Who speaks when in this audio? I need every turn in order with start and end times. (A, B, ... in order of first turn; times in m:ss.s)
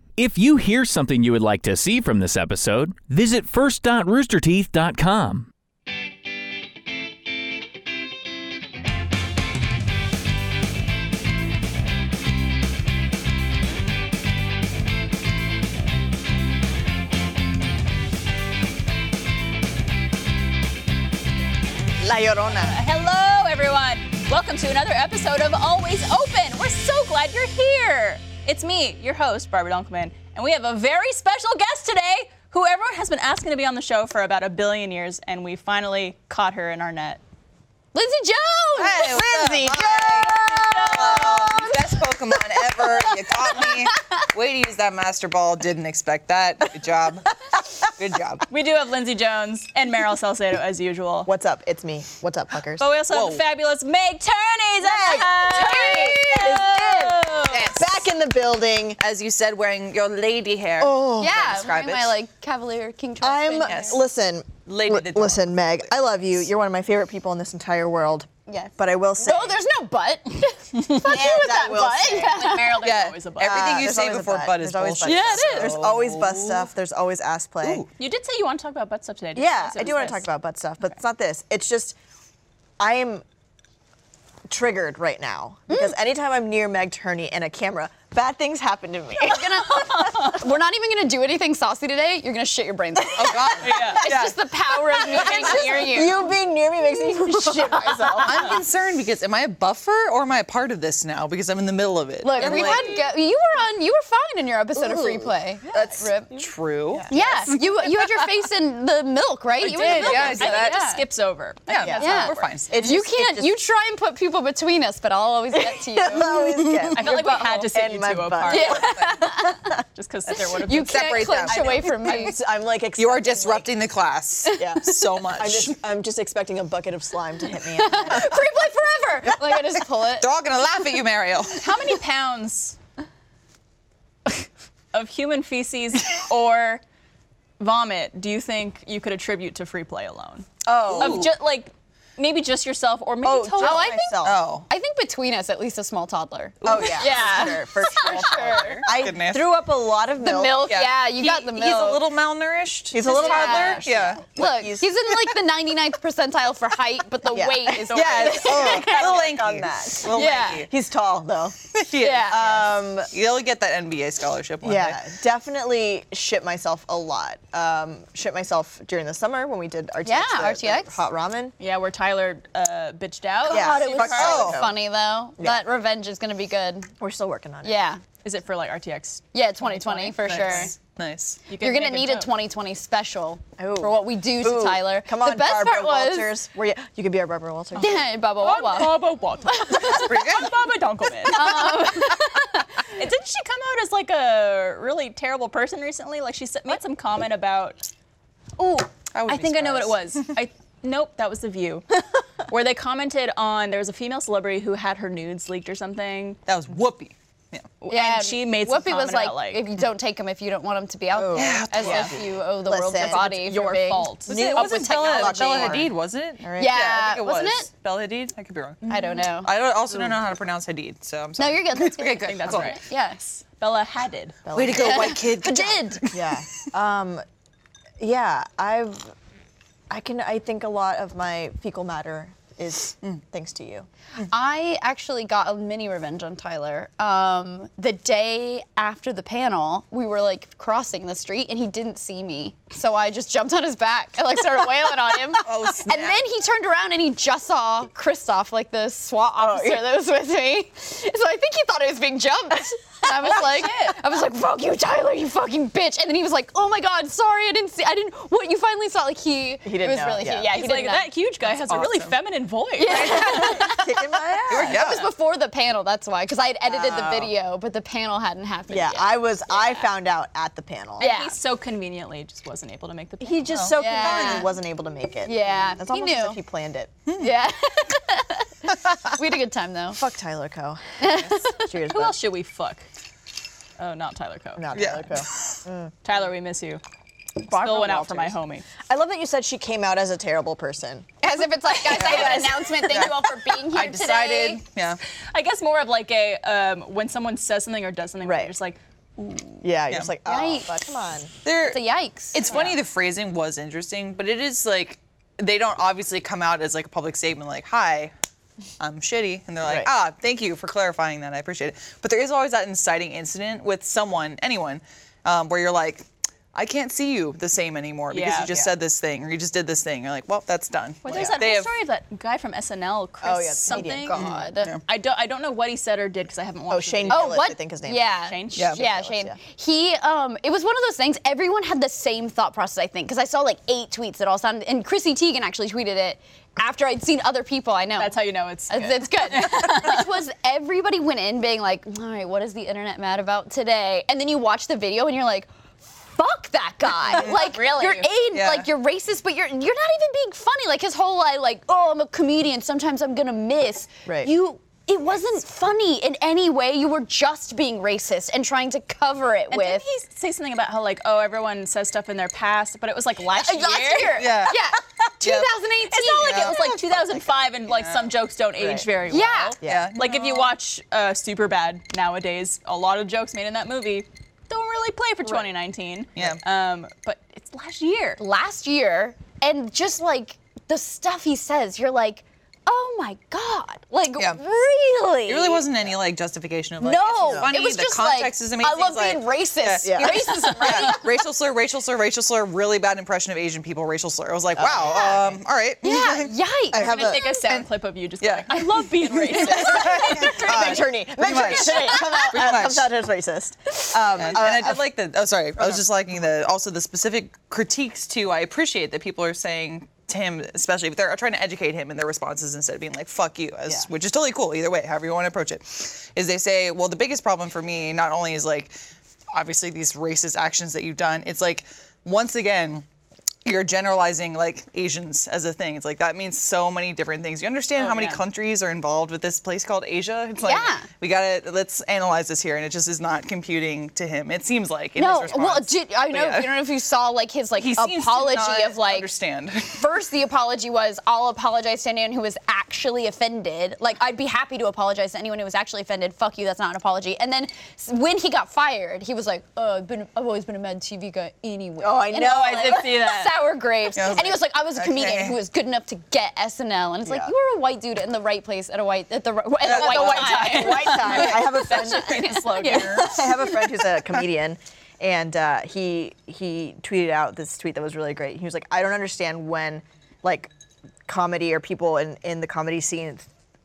0:00.2-0:05.5 A
0:22.0-0:22.8 B
0:22.5-0:37.2 C
0:37.9-0:39.8 D
0:38.8-0:48.4 E
0:39.0-0:41.6 B
0:40.5-0:41.7 C
0:42.8-0:44.0 D
0:48.5-0:51.3 C
0:51.3-0:52.9 B
0:52.8-0:57.8 C
0:53.1-0:53.4 E
0:54.8-0:59.0 B
0:55.5-0:56.4 D
0:57.5-0:57.9 E
0:59.0-1:02.1 E
1:00.8-1:01.5 B
1:01.2-1:04.0 D
1:03.2-1:09.6 B
1:03.7-1:04.0 E
1:04.7-1:05.8 E
1:08.5-1:12.9 D
1:10.8-1:12.7 B
1:12.2-1:13.9 C
1:12.8-1:16.7 E
1:13.4-1:17.9 B
1:15.0-1:15.8 D
1:15.1-1:15.7 C
1:17.6-1:17.9 E
1:18.0-1:20.3 C
1:19.4-1:22.0 B
1:22.8-1:23.2 B
1:24.5-1:30.2 B
1:25.7-1:25.9 D
1:29.2-1:36.2 D
1:33.2-1:34.4 E
1:33.6-1:34.1 C
1:35.0-1:36.3 C
1:35.1-1:38.6 B
1:38.2-1:43.0 E
1:42.2-1:46.4 D
1:42.4-1:43.0 C
1:44.8-1:45.3 B
1:45.7-1:47.8 E
1:46.9-1:47.2 B
1:47.1-1:51.0 D
1:49.6-1:52.5 C
1:49.8-1:50.8 E
1:51.7-1:52.8 E
1:51.8-1:53.6 B
1:51.9-1:56.4 D
1:55.6-1:59.7 B
1:56.5-1:57.0 E
1:56.9-1:59.0 C
1:57.0-1:57.7 D
1:58.5-1:59.7 D
1:58.5-1:59.2 E
2:00.0-2:01.1 C
2:00.7-2:02.4 D
2:00.8-2:01.8 E
2:01.5-2:03.7 B
2:03.0-2:05.8 E
2:04.6-2:08.4 B
2:07.8-2:10.3 D
2:10.2-2:11.7 E
2:11.5-2:12.8 C
2:14.3-2:16.8 C
2:17.6-2:23.8 C
2:20.7-2:21.3 E
2:20.7-2:21.3 B
2:23.2-2:24.4 B
2:23.6-2:28.9 D
2:24.2-2:24.7 E
2:26.6-2:29.5 E
2:26.6-2:30.7 B
2:30.2-2:32.0 D
2:30.7-2:34.3 E
2:32.9-2:35.0 B
2:33.0-2:39.1 D
2:37.2-2:41.6 B
2:37.9-2:40.7 E
2:38.0-2:38.7 C
2:40.1-2:40.7 D
2:41.7-2:45.0 E
2:42.0-2:42.6 D
2:42.3-2:43.1 B
2:44.6-2:51.5 B
2:50.0-2:51.0 D
2:51.6-2:54.5 C
2:53.4-2:56.9 D
2:53.5-2:54.8 B
2:54.1-2:54.7 E
2:57.0-2:57.8 B
2:57.6-2:58.0 D
2:58.2-3:00.7 C
2:59.3-3:00.7 D
3:00.2-3:01.4 E
3:01.5-3:02.3 C
3:01.6-3:06.3 D
3:03.6-3:08.1 B
3:07.8-3:10.3 D
3:08.4-3:11.8 C
3:09.9-3:10.6 E
3:11.3-3:12.7 D
3:12.9-3:17.8 C
3:18.6-3:26.4 C
3:19.1-3:20.3 E
3:26.5-3:27.7 E
3:27.8-3:29.6 C
3:27.9-3:35.9 D
3:31.2-3:33.2 B
3:31.3-3:32.2 E
3:33.0-3:34.3 C
3:34.3-3:36.8 B
3:34.3-3:42.8 E
3:36.6-3:37.7 D
3:38.9-3:39.5 D
3:41.4-3:43.4 D
3:42.2-3:42.8 C
3:43.6-3:44.4 C
3:44.5-3:45.3 B
3:44.5-3:46.6 E
3:44.7-3:46.1 D
3:46.1-3:47.2 B
3:48.0-3:49.1 B
3:49.9-3:53.9 B
3:54.3-4:21.1 D
4:05.4-4:06.2 E
4:09.4-4:09.8 B
4:13.2-4:14.0 C
4:19.6-4:20.5 B
4:20.5-4:23.6 C
4:21.5-4:22.2 E
4:22.8-4:29.1 D
4:22.9-4:23.7 E
4:22.9-4:24.8 B
4:24.5-4:25.1 E
4:26.6-4:27.3 B
4:28.7-4:31.1 B
4:31.0-4:34.4 C
4:31.0-4:31.4 D
4:33.2-4:36.9 B
4:33.8-4:34.5 D
4:35.2-4:36.4 D
4:37.2-4:40.0 D
4:39.9-4:42.2 B
4:41.0-4:41.7 D
4:41.9-4:42.8 C
4:43.8-4:44.6 C
4:44.6-4:46.0 B
4:44.7-4:45.6 E
4:46.0-4:46.8 C
4:47.4-4:51.1 B
4:47.4-4:48.7 C
4:51.2-4:54.6 D
4:51.9-4:55.0 E
4:51.9-4:52.6 B
4:55.3-4:59.7 C
4:58.2-4:58.5 B
4:59.6-5:01.3 B
5:00.2-5:00.8 D
5:01.4-5:08.1 E
5:01.6-5:02.7 D
5:02.5-5:02.8 C
5:08.8-5:21.7 E
5:09.6-5:09.9 B
5:18.1-5:18.5 C
5:18.4-5:18.7 B
5:21.0-5:24.2 C
5:21.1-5:21.4 B
5:23.2-5:24.4 B
5:24.1-5:24.7 D
5:24.1-5:24.8 E
5:24.9-5:27.4 C
5:26.7-5:29.4 B
5:27.1-5:38.2 D
5:28.3-5:28.7 C
5:28.6-5:28.8 E
5:38.0-5:40.1 C
5:38.7-5:59.8 D
5:47.1-5:48.2 C
5:48.3-5:48.7 E
5:59.5-6:04.3 C
6:03.3-6:06.5 D
6:04.2-6:04.6 E
6:05.2-6:05.5 E
6:05.9-6:18.2 C
6:06.2-6:08.1 E
6:08.6-6:08.9 B
6:09.1-6:09.6 D
6:09.6-6:09.9 B
6:09.6-6:10.5 E
6:18.2-6:25.7 D
6:25.3-6:37.7 E
6:26.8-6:31.1 D
6:27.2-6:27.6 B
6:29.8-6:30.6 B
6:34.6-6:35.4 B
6:35.8-6:37.4 D
6:36.7-6:37.2 B
6:36.7-6:40.8 C
6:38.2-6:42.9 E
6:39.3-6:44.9 B
6:39.7-6:40.7 D
6:41.3-6:42.5 D
6:44.1-6:58.7 E
6:45.6-6:45.8 B
6:59.3-7:02.8 E
7:03.4-7:16.6 E
7:07.8-7:08.2 C
7:10.4-7:10.9 D
7:15.0-7:19.1 D
7:17.6-7:19.8 E
7:19.7-7:42.9 D
7:31.8-7:32.9 B
7:32.1-7:33.4 C
7:34.0-7:35.4 E
7:37.0-7:37.3 B
7:39.6-7:41.5 E
7:39.6-7:50.5 B
7:40.2-7:43.6 C
7:42.6-7:43.6 E
7:51.1-7:53.3 B